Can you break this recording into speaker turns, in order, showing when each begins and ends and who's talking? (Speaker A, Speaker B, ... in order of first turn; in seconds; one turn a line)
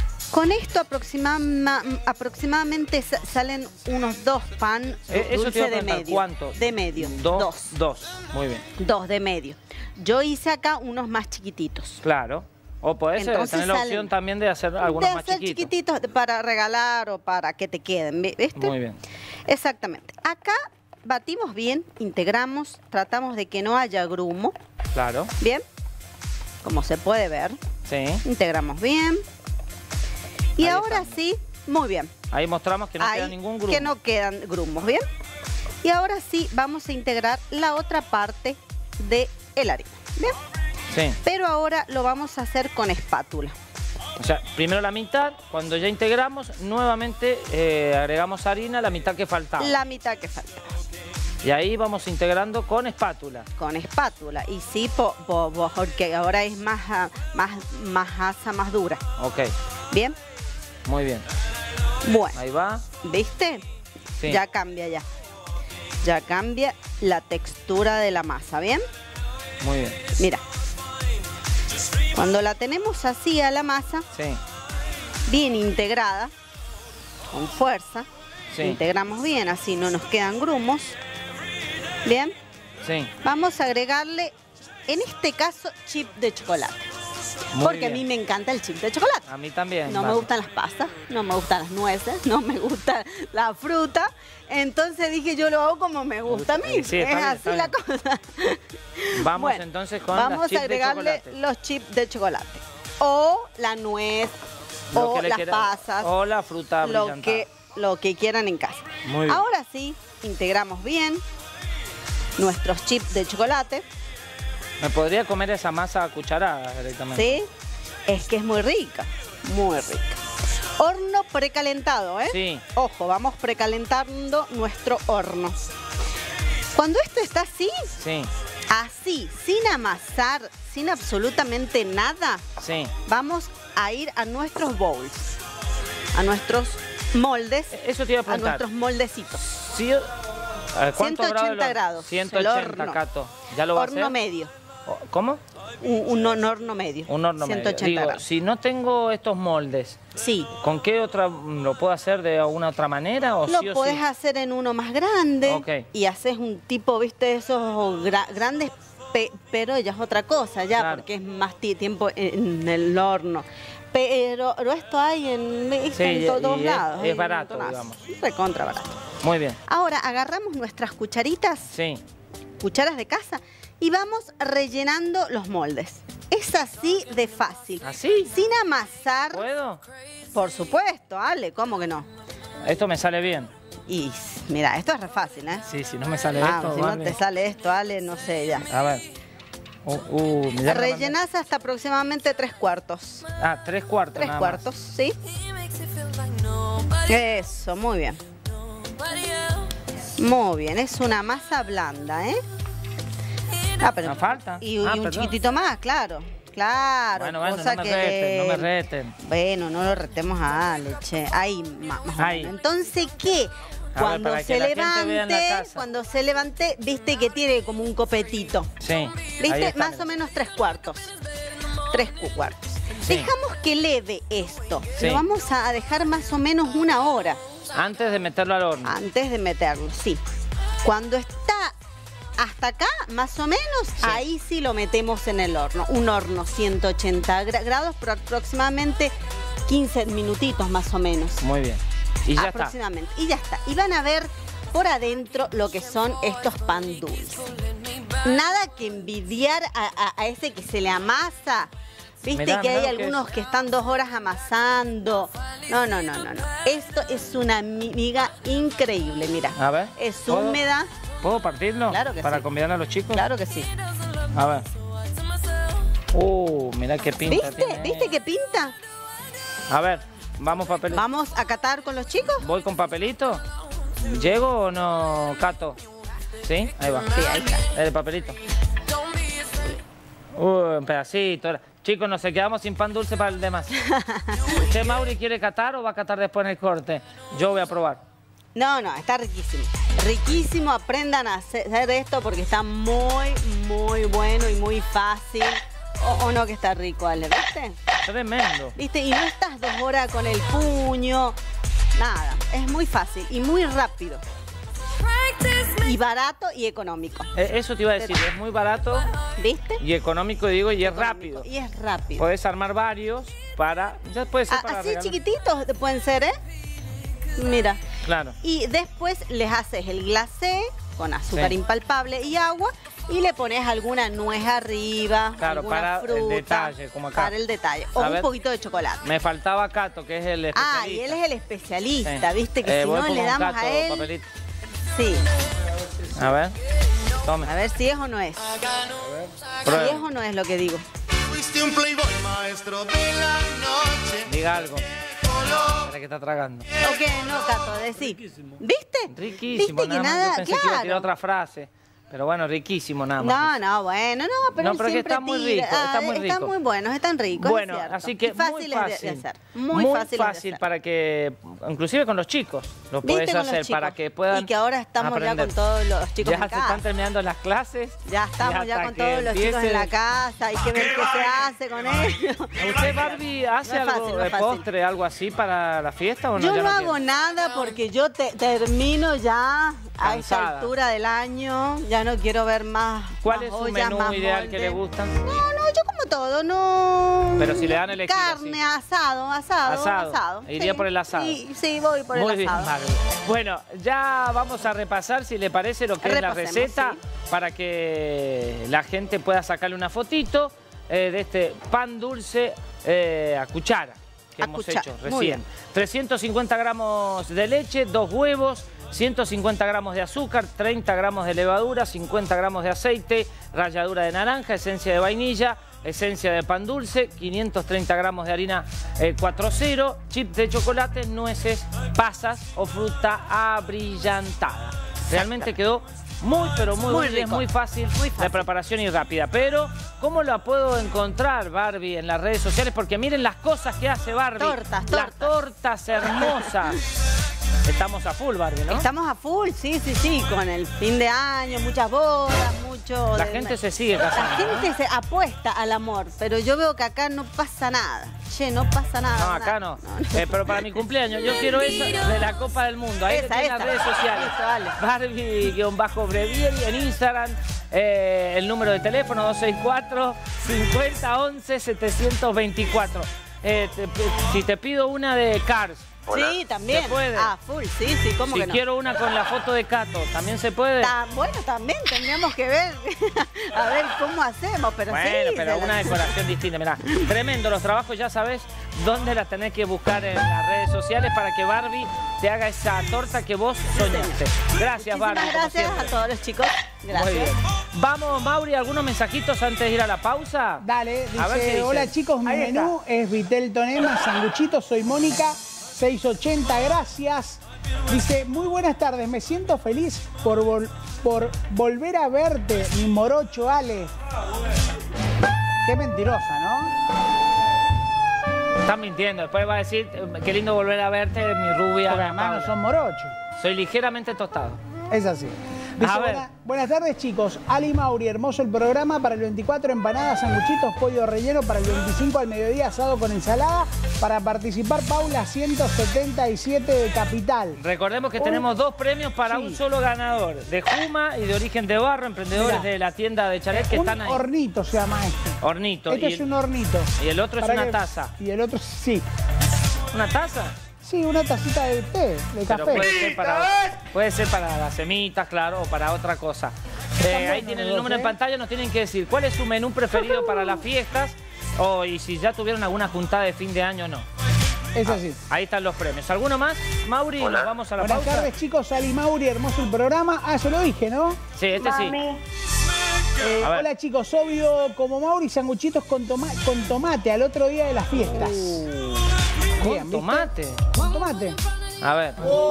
Speaker A: 0.3-7.7
Speaker B: 5.1-8.7
Speaker A: 8.8-12.0
Speaker B: 12.0-15.7
Speaker A: 13.2-14.1
Speaker A: 14.8-18.8
Speaker B: 18.6-19.0
Speaker A: 19.5-24.6
Speaker B: 24.9-25.3
Speaker A: 26.6-27.6
Speaker B: 27.9-28.2
Speaker A: 28.2-29.2
Speaker A: 30.6-32.1
Speaker B: 30.6-31.2
Speaker B: 32.3-33.9
Speaker A: 33.0-35.0
Speaker A: 35.8-40.4
Speaker B: 40.9-41.2
Speaker A: 41.2-43.5
Speaker B: 44.2-49.8
Speaker A: 49.6-50.8
Speaker B: 51.4-53.5
Speaker A: 53.6-59.0
Speaker B: 59.2-59.5
Speaker A: 59.9-60.2
Speaker B: 60.9-61.2
Speaker A: 62.0-62.4
Speaker B: 62.3-62.8
Speaker A: 63.0-63.6
Speaker A: 64.2-65.0
Speaker A: 66.0-68.8
Speaker B: 69.6-70.0
Speaker A: 72.1-74.1
Speaker B: 74.1-74.4
Speaker A: 75.3-76.3
Speaker A: 77.3-78.1
Speaker B: 78.5-78.8
Speaker A: 78.6-81.0
Speaker A: 82.0-82.3
Speaker B: 82.8-83.1
Speaker A: 83.2-84.3
Speaker A: 84.9-86.9
Speaker B: 87.6-88.0
Speaker A: 87.6-89.2
Speaker B: 89.3-90.3
Speaker A: 89.9-104.4
Speaker B: 96.3-97.7
Speaker B: 99.1-101.3
Speaker B: 104.9-107.5
Speaker A: 104.9-106.1
Speaker A: 106.8-111.2
Speaker B: 109.0-109.4
Speaker A: 112.4-113.8
Speaker B: 114.8-117.4
Speaker A: 117.1-117.5
Speaker A: 118.1-120.2
Speaker A: 120.8-125.6
Speaker B: 122.3-122.6
Speaker A: 126.7-127.9
Speaker B: 128.0-128.3
Speaker A: 128.7-132.4
Speaker B: 132.6-132.9
Speaker A: 133.1-135.4
Speaker A: 136.1-139.4
Speaker B: 137.7-138.6
Speaker B: 139.4-140.1
Speaker B: 140.8-144.2
Speaker A: 141.0-143.0
Speaker A: 143.7-144.5
Speaker B: 144.9-145.4
Speaker A: 145.8-148.2
Speaker B: 147.1-150.0
Speaker A: 150.2-150.5
Speaker B: 150.6-154.0
Speaker A: 153.5-169.0
Speaker B: 155.5-155.8
Speaker B: 160.8-161.0
Speaker B: 165.9-168.0
Speaker B: 169.2-169.6
Speaker A: 169.7-171.7
Speaker B: 171.7-172.0
Speaker A: 172.6-179.4
Speaker B: 177.8-178.3
Speaker B: 179.3-179.8
Speaker A: 180.3-182.1
Speaker B: 182.6-183.5
Speaker A: 183.9-185.7
Speaker B: 185.7-187.2
Speaker A: 186.4-188.7
Speaker B: 188.7-189.1
Speaker B: 189.8-191.2
Speaker A: 190.7-193.3
Speaker B: 193.4-194.6
Speaker A: 194.2-195.2
Speaker A: 196.9-198.2
Speaker A: 200.2-202.4
Speaker A: 203.8-208.7
Speaker B: 204.0-205.3
Speaker B: 207.2-209.2
Speaker A: 209.2-218.7
Speaker B: 212.2-212.5
Speaker B: 214.0-215.8
Speaker B: 218.8-220.1
Speaker A: 219.4-221.1
Speaker A: 221.9-227.4
Speaker B: 227.7-228.9
Speaker A: 228.8-230.2
Speaker A: 230.8-231.7
Speaker A: 232.4-239.1
Speaker A: 239.7-241.4
Speaker B: 241.4-242.7
Speaker A: 242.4-247.5
Speaker A: 248.2-251.7
Speaker A: 252.2-260.9
Speaker B: 252.4-253.2
Speaker B: 259.6-260.6
Speaker B: 261.2-263.2
Speaker A: 261.9-262.5
Speaker A: 263.1-263.7
Speaker B: 264.3-264.6
Speaker B: 266.1-268.1
Speaker A: 267.2-268.8
Speaker B: 269.7-271.0
Speaker A: 270.9-272.5
Speaker B: 272.4-273.4
Speaker B: 274.0-275.8
Speaker B: 276.4-277.1
Speaker A: 277.1-277.7
Speaker B: 277.7-278.4
Speaker B: 280.4-283.7
Speaker A: 283.8-284.6
Speaker B: 284.5-288.0
Speaker A: 288.6-297.8
Speaker B: 298.1-298.8
Speaker A: 298.8-301.4
Speaker A: 302.0-304.2
Speaker A: 305.5-307.3
Speaker B: 307.4-309.1
Speaker A: 309.4-309.8
Speaker B: 309.8-311.5
Speaker A: 310.8-312.2
Speaker B: 312.2-315.2
Speaker A: 314.5-316.3
Speaker A: 317.4-317.8
Speaker B: 318.1-318.4
Speaker A: 318.4-329.1
Speaker B: 325.4-327.3
Speaker B: 328.0-328.3
Speaker B: 329.0-331.2
Speaker A: 330.5-334.1
Speaker B: 332.0-334.3
Speaker A: 334.9-335.3
Speaker B: 336.1-336.6
Speaker B: 337.2-337.5
Speaker A: 337.4-338.5
Speaker B: 339.6-340.0
Speaker A: 339.6-340.8
Speaker C: 341.5-343.9
Speaker B: 344.1-344.9
Speaker B: 345.7-346.7
Speaker A: 346.8-351.1
Speaker B: 349.1-353.5
Speaker A: 353.2-360.6
Speaker B: 354.6-356.5
Speaker B: 357.4-365.5
Speaker A: 363.0-366.8
Speaker B: 366.2-369.9
Speaker A: 368.1-374.6
Speaker B: 372.6-377.0
Speaker A: 376.4-392.7
Speaker B: 380.0-380.7
Speaker B: 383.2-385.4
Speaker B: 387.4-388.6
Speaker B: 389.6-391.4
Speaker B: 392.1-436.8
Speaker A: 396.0-397.0
Speaker A: 404.4-405.4
Speaker A: 425.1-425.5
Speaker A: 426.9-428.5
Speaker A: 434.4-435.3
Speaker A: 436.0-436.7
Speaker B: 437.6-438.9
Speaker A: 438.7-450.7
Speaker B: 443.1-444.7
Speaker B: 449.2-466.0
Speaker A: 453.1-454.8
Speaker A: 466.1-468.6
Speaker B: 466.7-467.3
Speaker B: 468.2-470.9
Speaker A: 470.8-476.1
Speaker B: 474.9-485.9
Speaker A: 483.7-487.4
Speaker B: 486.9-490.6
Speaker D: 490.6-503.9
Speaker B: 491.2-491.9
Speaker A: 492.3-492.7
Speaker D: 505.6-506.7
Speaker B: 508.6-512.5
Speaker D: 511.9-513.2
Speaker B: 513.4-514.6
Speaker D: 514.9-527.6
Speaker B: 515.8-516.3
Speaker B: 527.6-534.2
Speaker D: 528.2-528.5
Speaker D: 529.3-529.6
Speaker D: 532.3-532.7
Speaker D: 533.5-535.4
Speaker B: 535.4-536.3
Speaker D: 535.9-539.0
Speaker B: 537.0-538.1
Speaker B: 539.9-540.6
Speaker D: 540.8-543.0
Speaker B: 542.5-554.1
Speaker D: 547.0-548.2
Speaker D: 554.8-555.2
Speaker B: 554.8-558.3
Speaker D: 557.8-561.2
Speaker B: 561.4-562.1
Speaker D: 563.2-568.7
Speaker B: 563.4-563.7
Speaker B: 568.0-570.6
Speaker D: 569.6-571.4
Speaker B: 571.8-572.3